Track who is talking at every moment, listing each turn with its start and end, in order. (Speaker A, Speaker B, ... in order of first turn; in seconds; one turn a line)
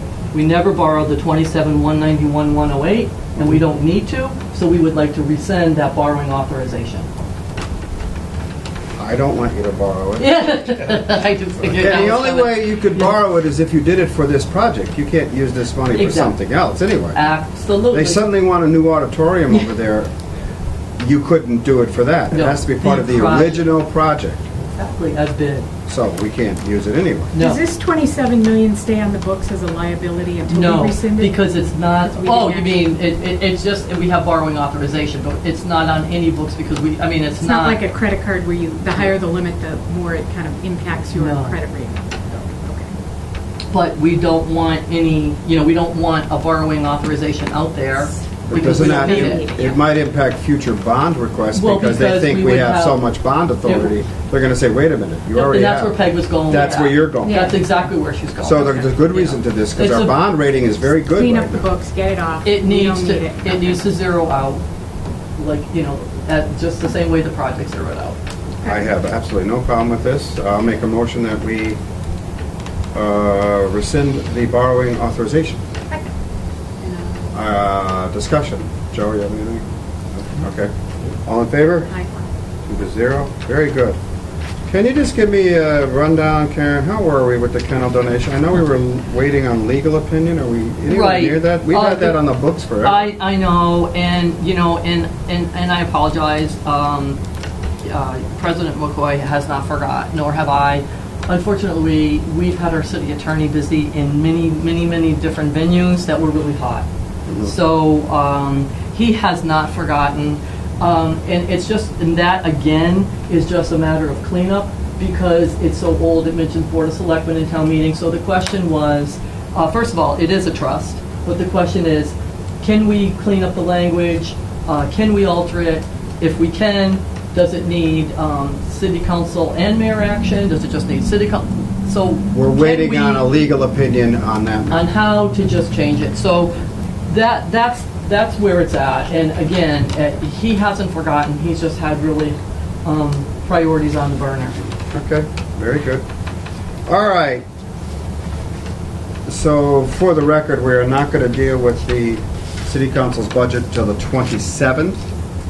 Speaker A: 0.3-7.1
Speaker B: 9.0-10.4
Speaker A: 10.2-13.2
Speaker B: 11.7-17.2
Speaker A: 15.9-16.4
Speaker A: 17.1-18.3
Speaker B: 17.9-20.1
Speaker B: 21.0-24.4
Speaker A: 22.3-23.7
Speaker A: 24.7-25.7
Speaker B: 25.9-27.3
Speaker A: 27.3-27.6
Speaker C: 27.4-31.5
Speaker A: 30.5-37.8
Speaker C: 32.0-32.9
Speaker C: 37.4-42.9
Speaker A: 41.1-41.6
Speaker A: 43.7-49.5
Speaker B: 48.5-57.5
Speaker C: 48.5-49.8
Speaker A: 51.5-53.1
Speaker A: 53.6-53.9
Speaker A: 55.3-60.2
Speaker C: 57.2-57.8
Speaker B: 58.4-61.7
Speaker C: 61.1-63.8
Speaker A: 62.4-64.6
Speaker A: 65.4-68.2
Speaker B: 68.6-71.8
Speaker B: 72.9-75.6
Speaker C: 76.8-77.2
Speaker B: 77.3-79.6
Speaker B: 80.2-80.7
Speaker B: 81.2-81.9
Speaker C: 81.9-82.2
Speaker B: 82.7-84.0
Speaker B: 84.7-93.1
Speaker A: 90.9-92.2
Speaker A: 92.8-97.2
Speaker A: 97.8-106.9
Speaker B: 107.3-107.5
Speaker A: 107.4-133.3
Speaker B: 132.3-134.8
Speaker A: 134.7-136.6
Speaker A: 137.1-144.7
Speaker B: 144.9-146.1
Speaker B: 146.9-147.4
Speaker B: 149.3-155.0